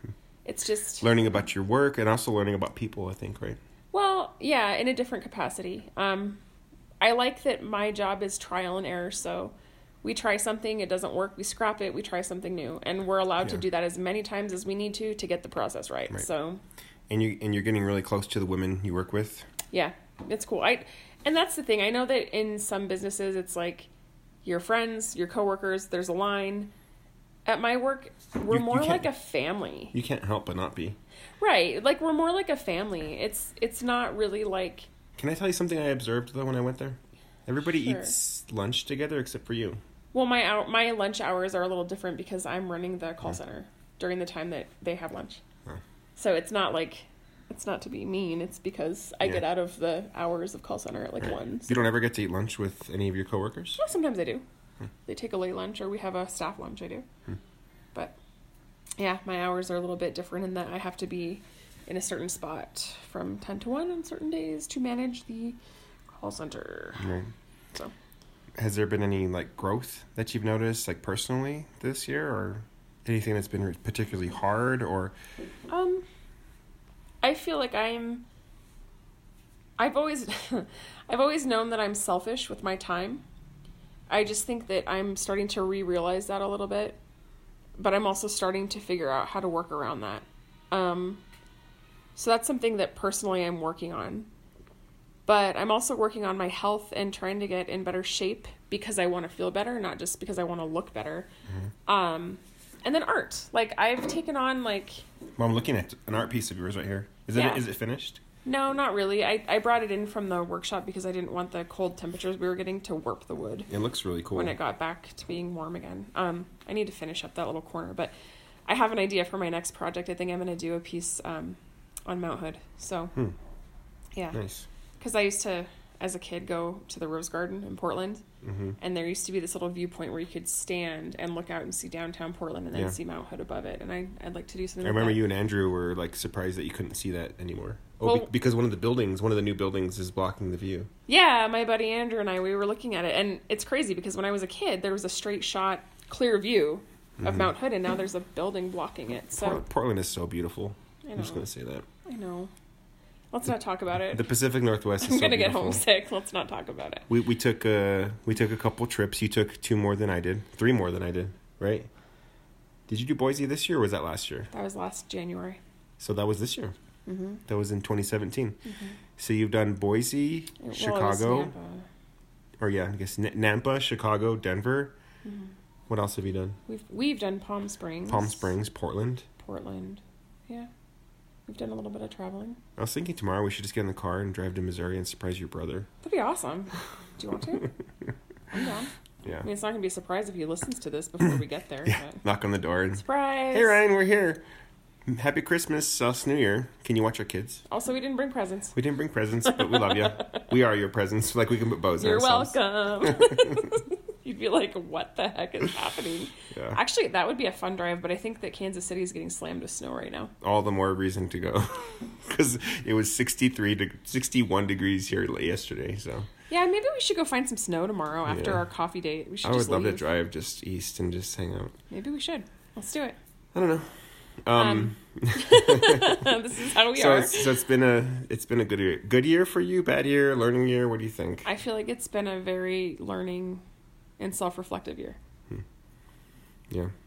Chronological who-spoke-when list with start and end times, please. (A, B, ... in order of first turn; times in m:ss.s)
0:00.4-0:01.1 A
0:01.0-0:03.6 B
0:03.9-0:06.4 A
0:07.0-0:16.6 A
0:17.1-0:19.5 B
0:19.7-0:23.9 A
0:24.4-0:26.7 A
0:27.5-0:30.0 A
0:28.5-0:29.1 B
0:29.9-0:31.0 B
0:31.4-0:34.9 A
0:35.2-0:39.8 B
0:37.7-0:38.2 A
0:40.1-0:45.4 A
0:46.2-0:51.8 A
0:51.2-0:53.8 B
0:53.8-0:54.4 A
0:55.1-0:57.1 A
0:59.0-1:05.6 A
1:06.1-1:07.2 A
1:07.0-1:07.3 B
1:08.6-1:15.2 B
1:15.7-1:16.0 A
1:17.2-1:18.2 A
1:19.8-1:23.2 A
1:24.1-1:27.0 A
1:27.8-1:31.2 A
1:32.2-1:34.3 A
1:35.3-1:41.3 A
1:41.9-1:45.0 A
1:45.4-1:48.2 B
1:47.3-1:47.6 A
1:48.4-1:53.7 A
1:53.7-1:54.6 B
1:54.3-1:58.1 A
1:58.7-2:03.1 A
2:04.3-2:04.7 B
2:05.0-2:08.2 A
2:08.4-2:08.8 B
2:08.8-2:15.2 A
2:14.8-2:20.9 B
2:18.0-2:18.3 A
2:21.1-2:29.6 A
2:27.2-2:27.5 B
2:29.4-2:31.9 B
2:31.0-2:31.4 A
2:32.0-2:32.5 A
2:33.3-2:34.3 A
2:34.1-2:35.8 B
2:35.0-2:37.0 A
2:37.1-2:41.9 B
2:42.9-2:44.5 B
2:44.5-2:45.6 A
2:46.0-2:46.8 B
2:47.1-2:47.4 A
2:47.5-2:48.6 B
2:48.7-2:49.0 A
2:49.2-2:51.5 B
2:50.6-2:51.8 A
2:52.6-2:55.0 B
2:55.2-2:55.5 A
2:55.9-2:56.6 B
2:56.7-2:58.5 A
2:58.1-2:59.3 B
2:59.4-3:00.7 A
3:01.5-3:02.6 A
3:02.8-3:05.9 B
3:06.0-3:07.7 A
3:08.5-3:08.9 A
3:09.4-3:12.2 A
3:11.9-3:14.4 B
3:13.0-3:13.8 A
3:15.1-3:17.6 B
3:17.7-3:18.7 A
3:18.7-3:23.6 B
3:19.5-3:20.4 A
3:22.0-3:30.3 A
3:26.5-3:26.8 B
3:30.4-3:36.3 B
3:36.5-3:40.1 A
3:38.3-3:38.6 B
3:39.4-3:41.8 B
3:41.9-3:43.2 A
3:43.5-3:43.9 B
3:44.4-3:46.3 B
3:44.6-3:47.5 A
3:46.9-3:51.5 B
3:51.4-3:53.6 A
3:54.2-3:55.2 A